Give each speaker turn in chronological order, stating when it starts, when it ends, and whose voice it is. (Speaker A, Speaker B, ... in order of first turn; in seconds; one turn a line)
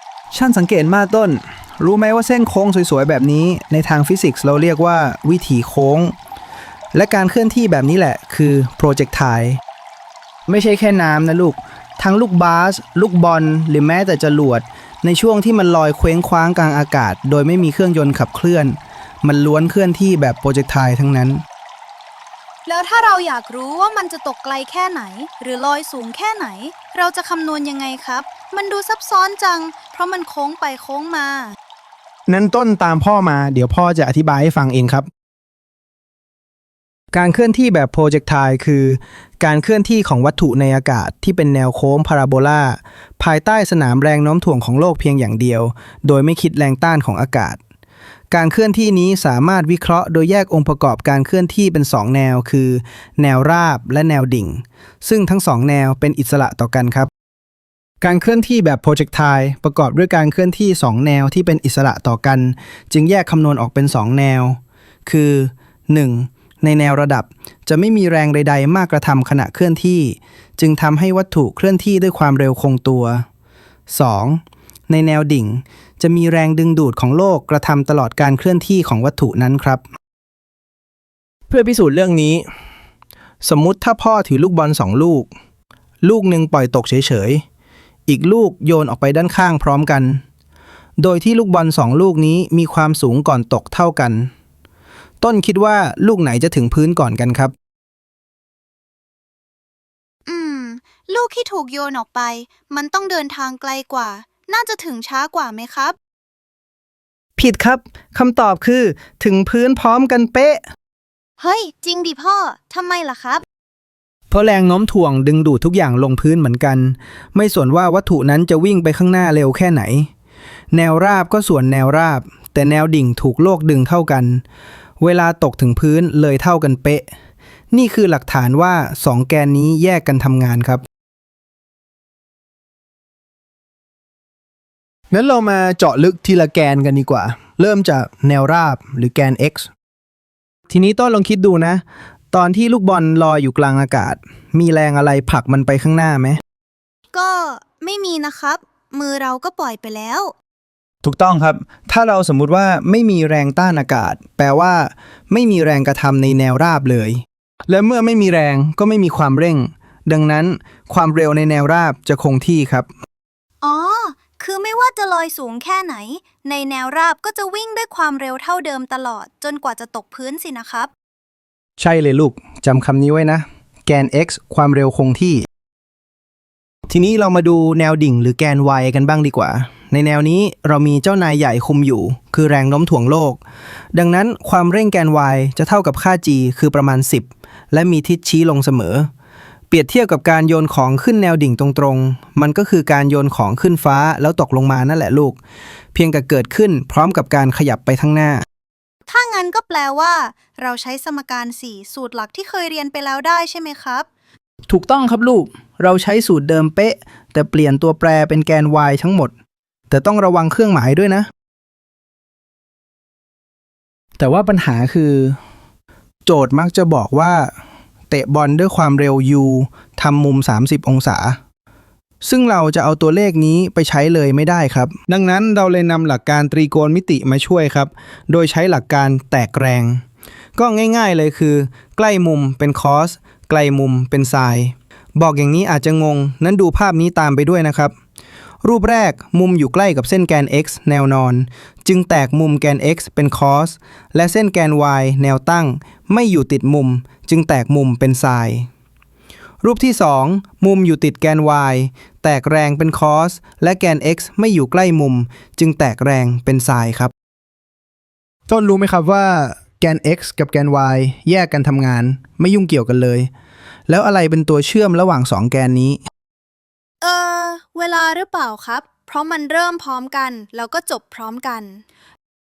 Speaker A: 0.3-6.1
Speaker A: 6.9-9.6
Speaker A: 10.5-21.4
Speaker B: 22.7-31.6
Speaker A: 32.3-35.1
Speaker A: 37.1-47.6
Speaker A: 48.3-57.1
Speaker A: 58.0-73.2
Speaker A: 73.9-79.8
Speaker A: 81.5-82.5
Speaker A: 83.4-85.3
Speaker A: 86.0-87.4
Speaker A: 88.1-90.2
Speaker A: 91.0-94.3
Speaker A: 95.2-97.5
Speaker B: 100.3-106.0
Speaker A: 107.4-110.6
Speaker B: 111.4-113.4
Speaker A: 114.3-120.1
Speaker A: 120.7-124.4
Speaker A: 125.0-127.1
Speaker A: 127.7-130.8
Speaker A: 135.1-139.7
Speaker A: 140.7-146.4
Speaker B: 147.1-150.3
Speaker A: 151.0-162.9
Speaker B: 163.6-170.9
Speaker A: 171.8-175.5
Speaker A: 176.9-183.4
Speaker A: 183.9-189.1
Speaker A: 189.7-195.4
Speaker A: 195.9-198.4
Speaker B: 199.1-204.1
Speaker A: 204.7-209.3
Speaker A: 209.9-211.3
Speaker A: 214.2-215.4
Speaker A: 216.3-217.5
Speaker A: 218.1-221.4
Speaker A: 222.2-230.0
Speaker A: 230.6-237.9
Speaker A: 238.6-248.7
Speaker A: 249.6-257.1
Speaker A: 258.5-263.3
Speaker A: 263.9-266.0
Speaker B: 267.0-271.8